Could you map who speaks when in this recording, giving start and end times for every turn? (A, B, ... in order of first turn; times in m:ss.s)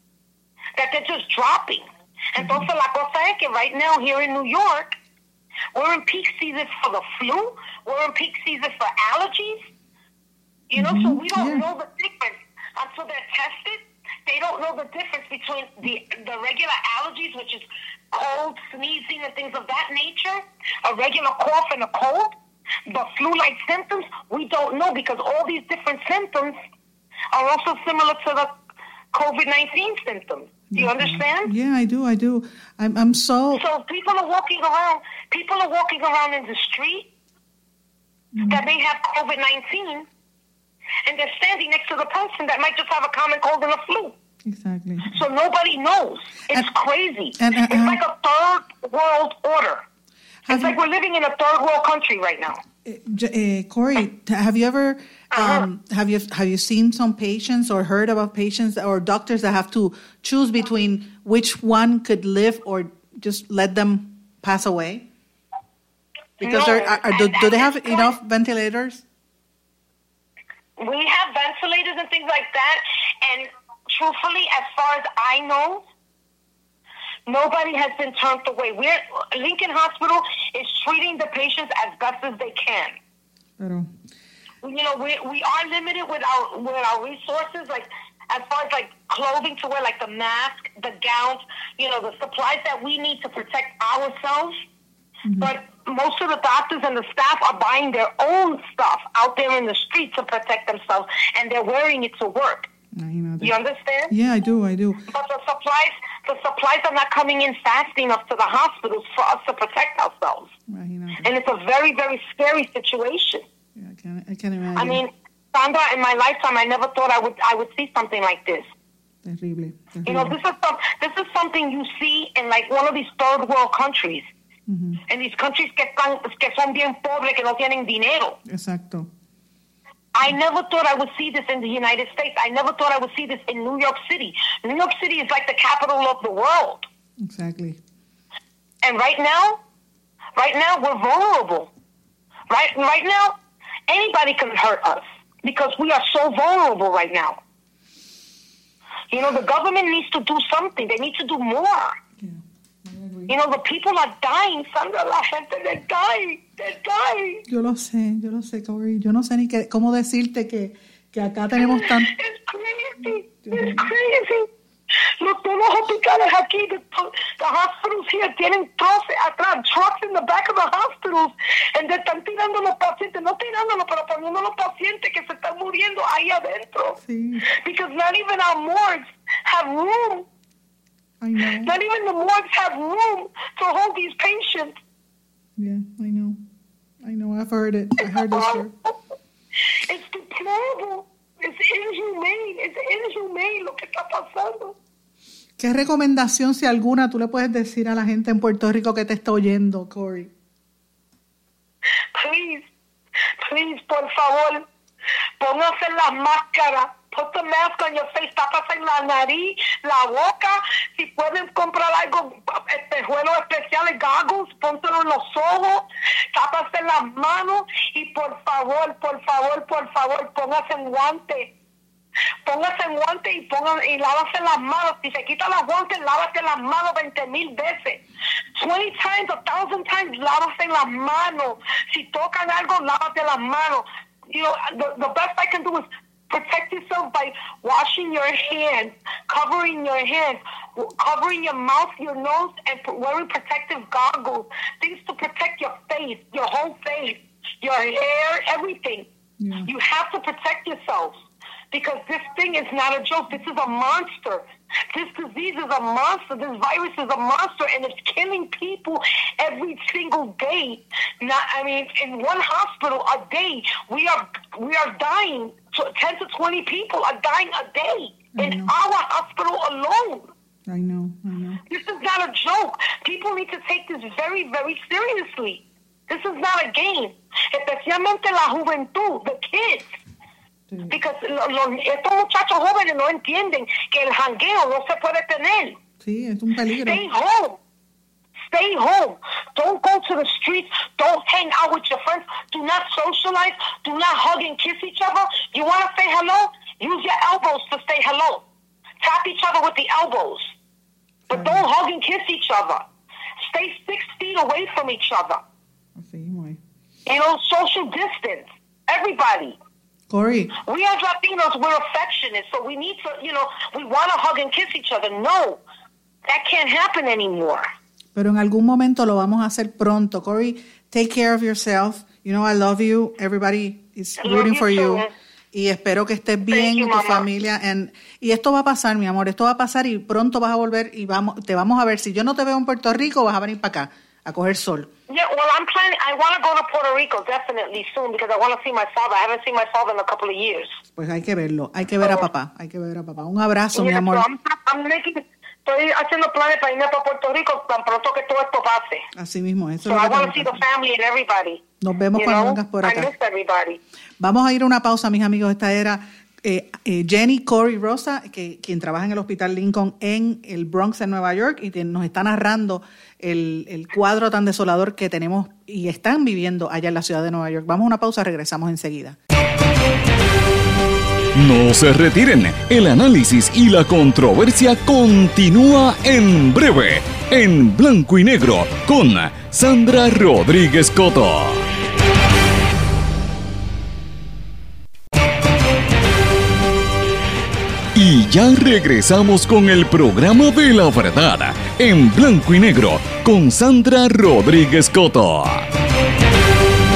0:00.8-0:05.0 A
0:02.4-0:02.7 B
0:05.8-0:09.6 A
0:10.7-0:22.3 A
0:10.8-0:11.7 B
0:22.9-0:26.6 A
0:27.3-0:28.5 A
0:29.1-0:31.5 A
0:30.7-0:33.6 B
0:33.6-0:37.1 A
0:38.3-0:38.6 B
0:38.5-0:40.1 A
0:41.1-0:44.2 A
0:44.4-0:45.2 B
0:45.1-0:49.8 A
0:47.4-0:48.0 B
0:50.4-0:50.8 B
0:50.5-0:52.6 A
0:52.8-1:05.1 B
0:55.3-0:55.7 A
1:06.4-1:08.2 A
1:06.4-1:09.0 B
1:10.8-1:15.8 A
1:17.3-1:23.0 A
1:23.6-1:23.9 B
1:24.6-1:34.6 A
1:35.2-1:35.5 B
1:35.4-1:42.7 A
1:43.0-1:43.5 B
1:43.4-1:44.1 A
1:44.1-1:45.1 B
1:45.1-1:50.5 A
1:50.7-1:51.3 B
1:51.2-1:53.4 A
1:53.8-1:55.0 B
1:54.8-1:58.7 A
1:59.2-2:00.4 B
2:00.1-2:04.3 A
2:04.7-2:05.0 B
2:05.1-2:08.4 A
2:08.5-2:09.1 B
2:10.2-2:16.9 A
2:17.2-2:17.8 B
2:18.8-2:19.6 A
2:20.4-2:21.7 A
2:22.5-2:23.4 A
2:23.9-2:27.4 A
2:29.1-2:32.0 A
2:32.2-2:33.3 B
2:33.3-2:37.4 A
2:37.5-2:42.1 B
2:41.6-2:57.0 A
2:43.0-2:43.9 B
2:57.0-2:57.5 B
2:57.5-3:00.3 A
3:01.2-3:01.7 B
3:01.6-3:04.8 A
3:05.6-3:06.4 B
3:07.0-3:08.7 B
3:08.2-3:08.9 A
3:09.7-3:14.8 A
3:15.6-3:20.3 B
3:22.2-3:22.7 A
3:23.4-3:24.6 A
3:25.4-3:41.5 A
3:42.5-3:48.0 A
3:48.6-4:09.1 A
4:09.4-4:09.7 B
4:09.6-4:11.2 A
4:11.7-4:30.3 A
4:28.4-4:28.7 B
4:30.7-4:31.6 B
4:31.7-4:39.9 A
4:40.7-4:41.0 B
4:40.9-4:45.8 A
4:46.0-4:47.0 B
4:46.8-4:47.6 A
4:48.5-4:58.4 A
4:59.0-5:00.5 A
5:01.3-5:01.7 B
5:01.3-5:02.8 A
5:03.4-5:05.4 A
5:06.0-5:06.6 B
5:07.1-5:09.6 A
5:10.1-5:10.6 B
5:10.6-5:15.6 A
5:16.3-5:17.7 A
5:18.2-5:34.9 B
5:24.2-5:25.1 A
5:26.5-5:27.3 A
5:35.1-5:40.8 A
5:40.9-5:44.3 B
5:43.8-5:49.1 A
5:49.1-5:50.6 B
5:49.9-5:51.6 A
5:51.8-5:53.1 B
5:52.2-5:53.8 A
5:54.2-6:09.2 B
6:11.4-6:21.7 C
6:28.0-6:35.7 C